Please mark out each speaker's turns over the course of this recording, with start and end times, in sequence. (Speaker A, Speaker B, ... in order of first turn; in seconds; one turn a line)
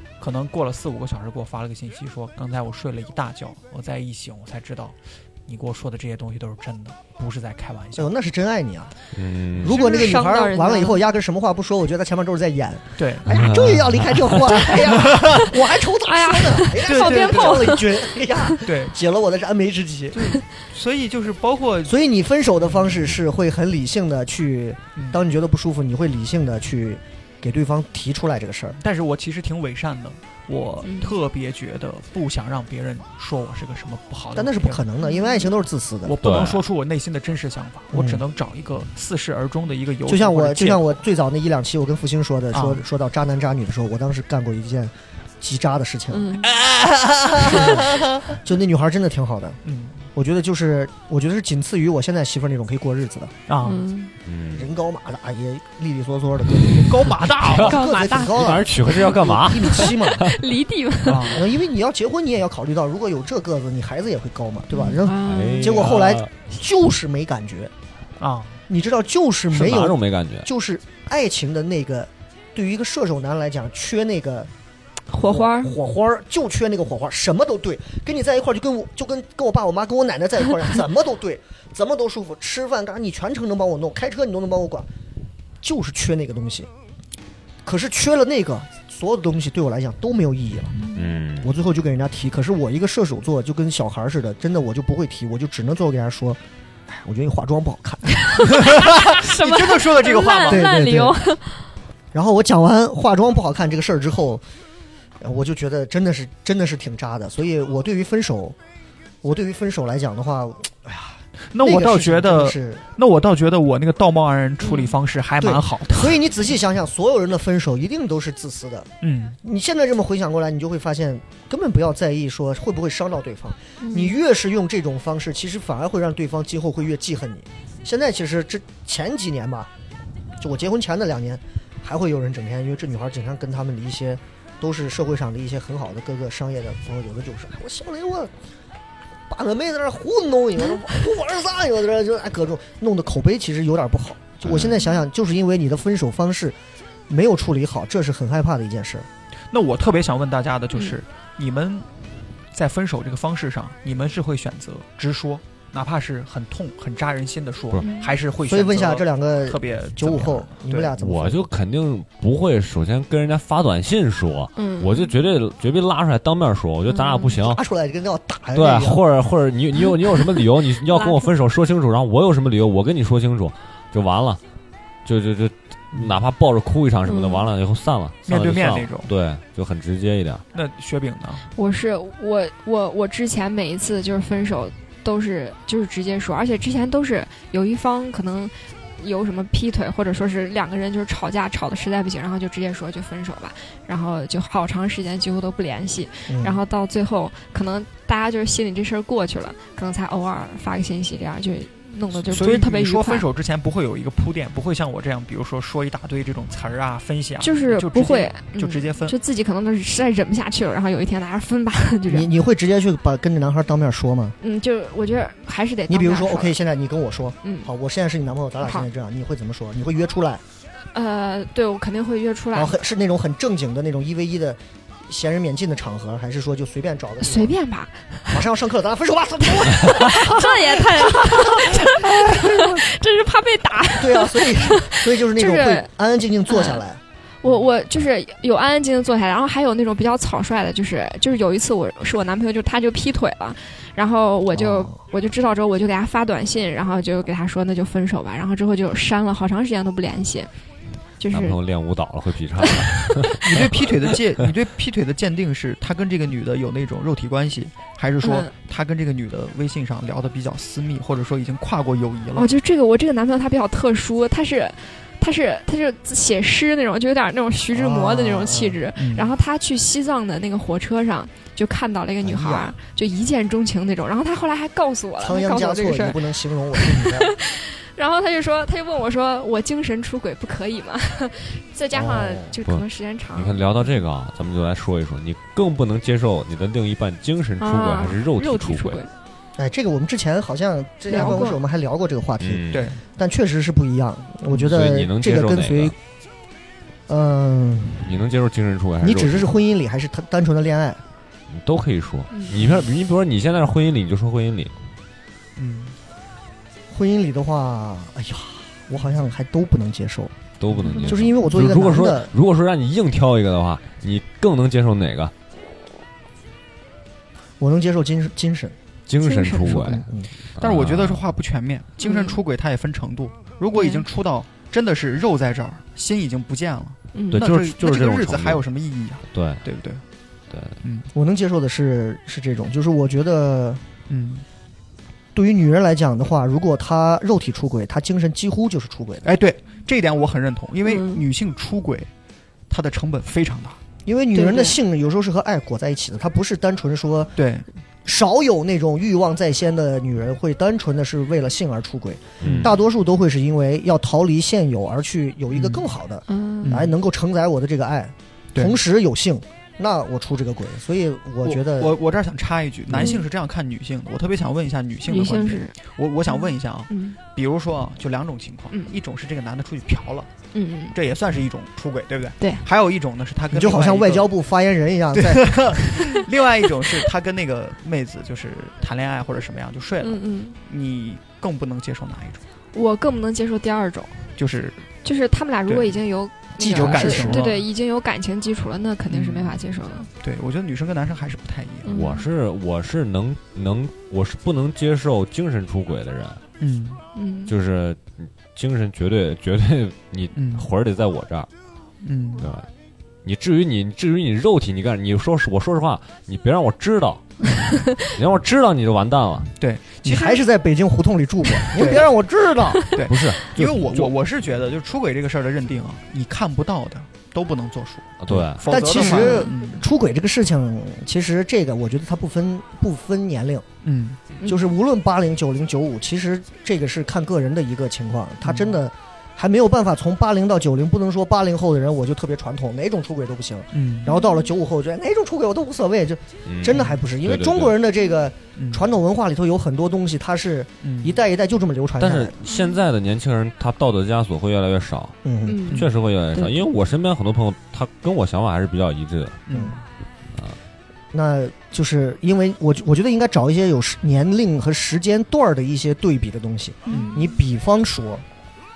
Speaker A: 0.2-8.1
Speaker B: 7.9-8.9
Speaker C: 9.1-9.8
Speaker B: 9.6-20.3
Speaker D: 9.7-11.0
Speaker A: 13.0-13.6
Speaker C: 13.3-14.4
Speaker A: 14.7-15.5
Speaker D: 16.0-18.5
Speaker A: 16.8-17.8
Speaker A: 18.6-18.9
Speaker A: 20.1-21.9
Speaker B: 21.8-28.8
Speaker A: 22.6-23.1
Speaker A: 24.9-25.2
Speaker A: 28.8-34.8
Speaker D: 30.8-31.1
Speaker B: 34.3-36.2
Speaker D: 35.0-35.5
Speaker A: 36.0-41.0
Speaker C: 36.2-36.6
Speaker B: 37.9-38.2
Speaker B: 40.0-46.4
Speaker A: 42.5-42.8
Speaker D: 46.1-46.5
Speaker A: 46.4-48.3
Speaker B: 47.4-49.6
Speaker A: 49.6-50.0
Speaker B: 50.1-53.3
Speaker A: 53.5-53.8
Speaker D: 53.6-54.1
Speaker C: 54.2-54.7
Speaker B: 54.5-60.3
Speaker A: 56.7-57.8
Speaker C: 57.4-60.4
Speaker D: 57.6-58.5
Speaker D: 59.6-61.4
Speaker A: 61.0-61.4
Speaker B: 61.3-67.7
Speaker D: 64.7-66.0
Speaker C: 65.1-66.3
Speaker A: 68.2-68.6
Speaker B: 68.7-74.5
Speaker C: 69.5-70.5
Speaker D: 75.1-75.7
Speaker B: 75.2-84.9
Speaker B: 85.6-86.7
Speaker B: 87.6-90.8
Speaker D: 90.8-91.1
Speaker C: 90.9-91.5
Speaker B: 91.4-98.6
Speaker D: 98.2-101.7
Speaker A: 98.5-100.7
Speaker B: 100.4-101.2
Speaker B: 102.1-104.4
Speaker B: 105.2-108.6
Speaker B: 109.2-112.8
Speaker A: 111.5-116.2
Speaker D: 114.6-114.9
Speaker B: 115.4-118.9
Speaker A: 119.0-119.4
Speaker B: 119.4-129.7
Speaker D: 123.8-124.2
Speaker B: 130.4-138.3
Speaker B: 139.3-146.6
Speaker B: 147.1-149.1
Speaker A: 149.5-151.9
Speaker A: 152.5-160.9
Speaker D: 157.8-158.1
Speaker B: 158.4-161.5
Speaker C: 161.0-167.6
Speaker D: 164.6-165.1
Speaker D: 166.9-167.3
Speaker B: 167.4-169.0
Speaker C: 168.5-174.4
Speaker D: 170.9-171.3
Speaker C: 175.0-180.4
Speaker D: 177.1-177.5
Speaker A: 178.2-179.1
Speaker A: 180.5-181.4
Speaker D: 181.5-203.2
Speaker B: 196.3-196.6
Speaker A: 202.2-209.2
Speaker D: 207.4-212.3
Speaker B: 212.1-214.3
Speaker D: 214.4-216.6
Speaker B: 215.9-220.4
Speaker D: 217.4-217.7
Speaker D: 218.6-218.9
Speaker D: 220.9-222.8
Speaker B: 222.5-227.5
Speaker D: 227.2-228.4
Speaker B: 228.3-232.8
Speaker D: 229.6-235.9
Speaker B: 234.0-237.0
Speaker D: 236.5-236.8
Speaker D: 237.4-250.5
Speaker B: 244.5-245.0
Speaker D: 251.2-251.6
Speaker C: 251.3-253.9
Speaker A: 253.4-262.5
Speaker D: 258.2-258.5
Speaker D: 262.4-283.6
Speaker B: 267.7-268.8
Speaker A: 269.0-269.3
Speaker B: 272.2-272.7
Speaker B: 275.2-277.3
Speaker B: 281.9-282.5
Speaker C: 282.6-289.1
Speaker D: 287.6-289.1
Speaker B: 289.6-295.9
Speaker D: 291.1-291.6
Speaker C: 292.4-292.9
Speaker A: 292.7-293.0
Speaker C: 294.5-295.9
Speaker B: 297.1-298.2
Speaker C: 298.0-299.5
Speaker B: 299.0-301.0
Speaker C: 301.5-304.7
Speaker D: 302.3-302.6
Speaker A: 302.5-302.9
Speaker A: 305.6-305.9
Speaker B: 306.9-310.3
Speaker C: 310.6-315.3
Speaker D: 310.8-311.1
Speaker B: 311.1-312.3
Speaker B: 317.6-318.8
Speaker C: 319.1-321.2
Speaker D: 319.2-319.9
Speaker B: 319.6-320.3
Speaker A: 320.6-330.0
Speaker D: 322.0-322.4
Speaker D: 323.7-324.0
Speaker D: 327.1-327.4
Speaker C: 327.3-328.6
Speaker C: 329.3-329.6
Speaker C: 330.5-330.8
Speaker A: 330.8-331.1
Speaker B: 331.1-333.8
Speaker A: 334.1-334.4
Speaker B: 335.3-339.3
Speaker A: 339.2-342.1
Speaker D: 340.9-341.2
Speaker A: 342.7-343.8
Speaker B: 344.1-347.4
Speaker D: 344.3-344.8
Speaker A: 347.4-347.6
Speaker B: 348.0-362.0
Speaker C: 352.4-352.8
Speaker A: 352.4-352.7
Speaker A: 355.5-355.9
Speaker D: 356.3-356.8
Speaker A: 356.6-356.9
Speaker A: 358.5-358.8
Speaker A: 361.4-370.3
Speaker D: 363.0-363.2
Speaker D: 365.1-365.7
Speaker D: 366.3-367.2
Speaker D: 370.5-370.9
Speaker A: 370.9-374.3
Speaker B: 373.5-375.8
Speaker A: 375.1-382.4
Speaker D: 380.0-380.6
Speaker D: 382.7-384.2
Speaker A: 384.4-384.9
Speaker D: 385.0-390.1
Speaker A: 385.7-386.0
Speaker A: 386.6-387.6
Speaker B: 386.6-387.5
Speaker A: 389.1-389.6
Speaker A: 390.2-391.9
Speaker D: 391.8-392.2
Speaker C: 391.9-396.4
Speaker A: 396.6-397.0
Speaker D: 397.1-397.5
Speaker C: 397.5-401.5
Speaker A: 400.3-400.7
Speaker A: 402.0-402.5
Speaker C: 402.4-402.7
Speaker C: 403.2-409.5
Speaker A: 409.6-410.2
Speaker B: 410.0-412.9
Speaker D: 410.1-410.4
Speaker A: 411.7-412.1
Speaker A: 412.9-419.9
Speaker C: 413.1-414.1
Speaker C: 418.2-418.6
Speaker B: 418.6-423.6
Speaker D: 418.9-419.5
Speaker A: 423.8-424.2
Speaker D: 424.4-424.7
Speaker B: 424.4-442.4
Speaker A: 428.4-428.8
Speaker A: 433.7-434.1
Speaker D: 434.1-434.4
Speaker C: 436.4-437.8
Speaker A: 436.7-437.0
Speaker A: 438.6-438.9
Speaker A: 440.8-441.2
Speaker C: 442.0-445.2
Speaker D: 442.4-442.8
Speaker B: 445.2-445.7
Speaker D: 445.4-445.8
Speaker C: 445.7-449.4
Speaker A: 449.5-449.8
Speaker B: 451.1-458.2
Speaker D: 456.9-457.3
Speaker A: 456.9-457.1